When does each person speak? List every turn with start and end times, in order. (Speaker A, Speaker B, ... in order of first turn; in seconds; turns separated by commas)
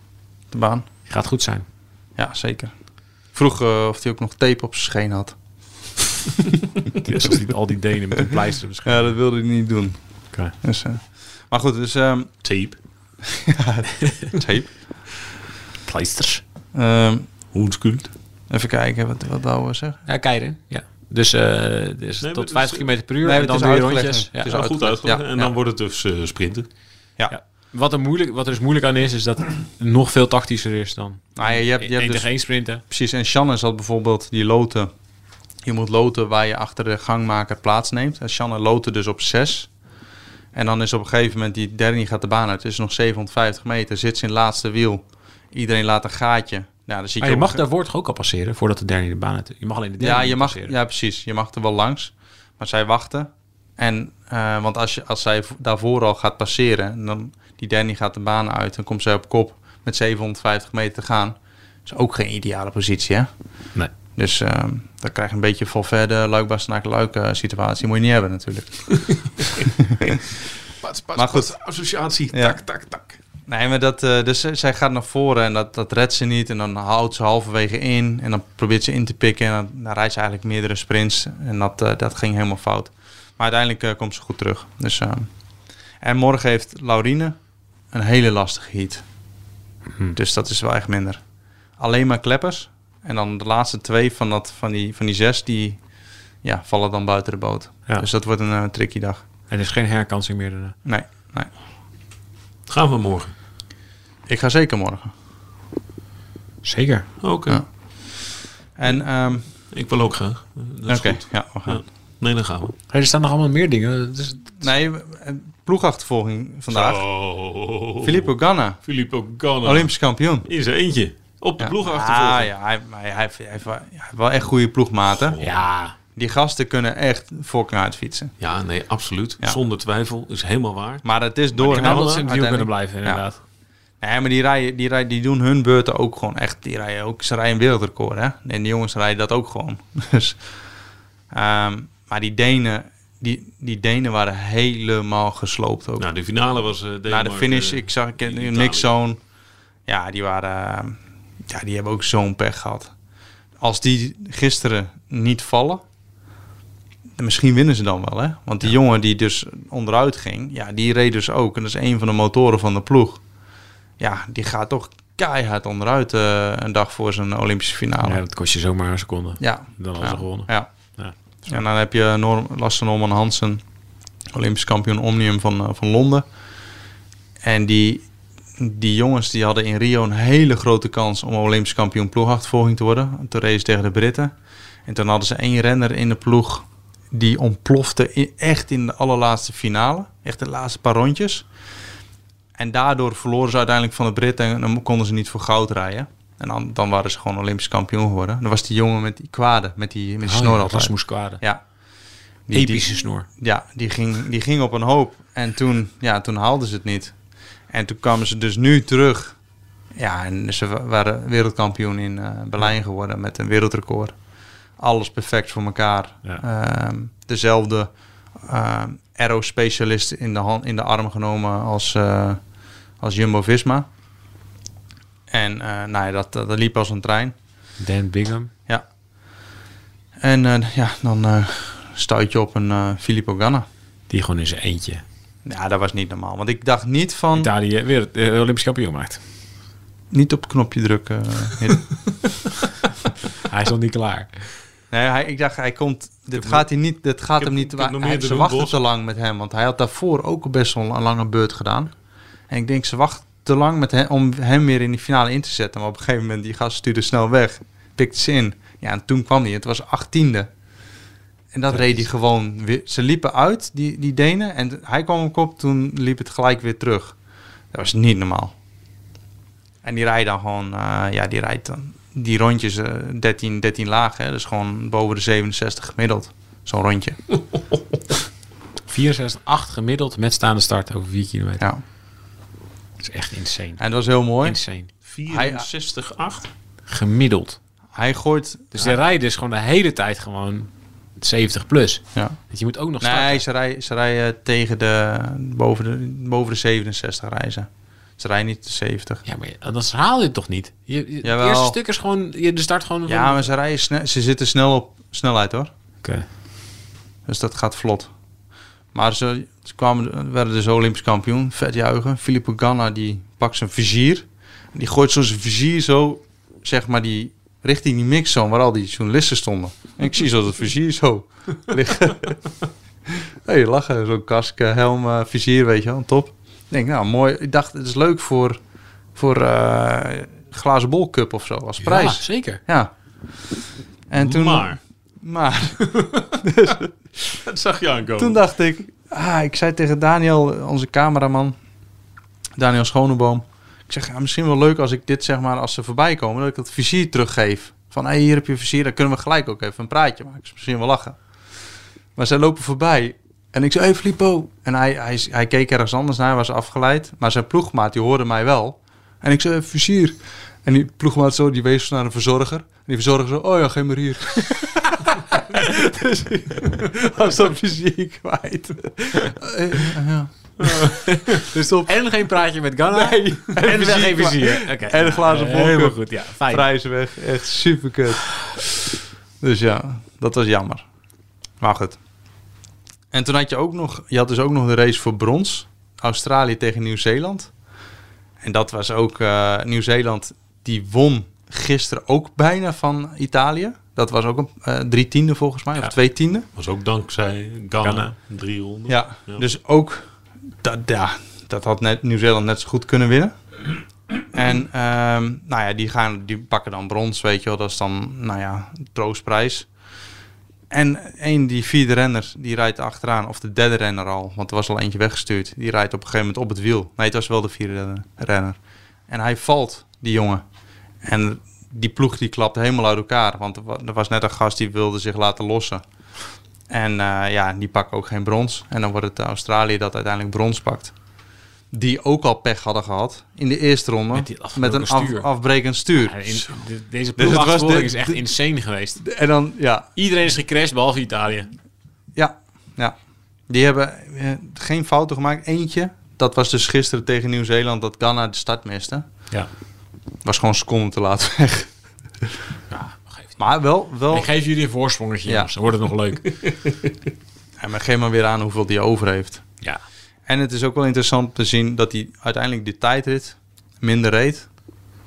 Speaker A: 0.5-0.9, Speaker B: 1.1-1.6, Speaker A: 2.1-2.7, Speaker A: 3.3-5.3, Speaker B: 7.0-9.2, Speaker A: 8.8-10.0, Speaker A: 10.5-12.4, Speaker C: 12.4-12.8, Speaker A: 13.2-14.9, Speaker B: 15.8-16.4, Speaker A: 16.7-17.3, Speaker C: 17.5-18.1, Speaker A: 18.5-20.0, Speaker B: 20.1-24.5, Speaker C: 22.2-23.4, Speaker A: 23.2-25.5, Speaker C: 24.4-26.7, Speaker B: 27.3-32.8, Speaker A: 31.4-34.9, Speaker A: 35.6-39.7, Speaker A: 40.5-47.6, Speaker B: 47.2-50.8, Speaker A: 50.0-63.3, Speaker A: 64.1-70.1, Speaker C: 70.8-73.2, Speaker A: 71.1-71.5, Speaker A: 72.3-72.6, Speaker A: 73.5-85.3, Speaker A: 86.0-87.3, Speaker A: 87.9-89.0, Speaker A: 90.1-91.2, Speaker A: 91.8-95.8, Speaker A: 96.4-99.2, Speaker B: 99.5-100.8, Speaker A: 100.8-101.5, Speaker C: 102.7-103.3, Speaker A: 104.3-105.1, Speaker B: 106.6-107.1, Speaker C: 107.2-107.6, Speaker A: 107.5-108.2, Speaker A: 108.8-109.5, Speaker C: 109.7-112.7, Speaker A: 110.9-111.8, Speaker B: 112.9-114.6, Speaker A: 114.6-117.0, Speaker C: 116.7-118.3, Speaker A: 118.0-118.8, Speaker C: 118.8-119.9, Speaker A: 119.6-120.5, Speaker C: 120.5-122.5, Speaker A: 121.6-125.4, Speaker C: 125.3-125.6, Speaker B: 125.4-125.9, Speaker A: 126.1-128.3, Speaker C: 128.4-132.2, Speaker A: 131.0-133.2, Speaker B: 131.7-133.4, Speaker A: 134.0-140.4, Speaker A: 141.3-146.1, Speaker C: 146.0-148.9, Speaker A: 147.1-149.2, Speaker A: 149.9-152.9, Speaker A: 153.6-155.8, Speaker A: 157.2-163.2, Speaker A: 164.0-168.2, Speaker B: 168.0-171.1, Speaker A: 169.4-170.7, Speaker A: 171.4-173.6, Speaker A: 174.3-176.2, Speaker A: 177.4-184.3, Speaker A: 184.8-191.4, Speaker A: 192.6-201.6, Speaker B: 200.2-201.4, Speaker A: 202.5-207.2, Speaker B: 202.5-203.3, Speaker A: 207.7-209.4, Speaker A: 209.9-214.2, Speaker A: 214.8-222.4, Speaker A: 223.0-223.9, Speaker A: 225.3-227.3, Speaker B: 227.8-228.5, Speaker A: 230.2-233.7, Speaker B: 234.1-235.0, Speaker A: 235.4-237.5, Speaker B: 237.3-239.2, Speaker A: 240.1-242.0, Speaker B: 243.4-244.3, Speaker A: 244.9-251.9, Speaker C: 246.3-246.7, Speaker C: 247.4-248.8, Speaker A: 252.5-260.5, Speaker A: 261.5-267.1, Speaker A: 267.7-268.5, Speaker A: 269.8-277.2, Speaker B: 278.9-281.6, Speaker B: 283.0-283.8, Speaker A: 283.8-284.6, Speaker B: 284.4-284.9, Speaker C: 285.0-286.5, Speaker A: 285.3-285.6, Speaker B: 286.9-287.6, Speaker A: 287.9-289.0, Speaker B: 288.7-293.4, Speaker A: 293.0-299.2, Speaker B: 299.2-303.5, Speaker A: 301.2-301.8, Speaker A: 303.1-305.7, Speaker A: 307.2-308.1, Speaker A: 308.9-322.4, Speaker A: 323.1-328.6, Speaker A: 329.1-336.9, Speaker B: 331.8-332.6, Speaker C: 334.1-334.8, Speaker C: 335.8-336.3, Speaker C: 337.4-338.4, Speaker A: 338.2-341.5, Speaker A: 342.6-351.2, Speaker A: 352.1-371.9, Speaker B: 371.3-376.7, Speaker A: 372.9-378.7, Speaker A: 379.4-380.9, Speaker A: 381.6-382.0, Speaker A: 383.1-387.5, Speaker A: 388.4-396.5, Speaker C: 396.6-399.4, Speaker B: 397.8-398.1, Speaker A: 398.9-400.1, Speaker A: 400.6-403.3, Speaker A: 404.3-409.7, Speaker A: 410.7-418.6, Speaker A: 419.1-420.4, Speaker A: 421.0-425.9, Speaker A: 426.7-430.9, Speaker A: 431.7-436.4, Speaker B: 434.1-435.3, Speaker B: 436.0-439.0, Speaker A: 437.2-438.3, Speaker A: 439.0-439.9, Speaker B: 439.9-441.5, Speaker A: 442.1-442.9, Speaker A: 443.5-449.0, Speaker A: 450.2-451.7, Speaker B: 452.7-456.4, Speaker A: 453.4-454.3, Speaker A: 457.6-459.4, Speaker A: 460.3-464.5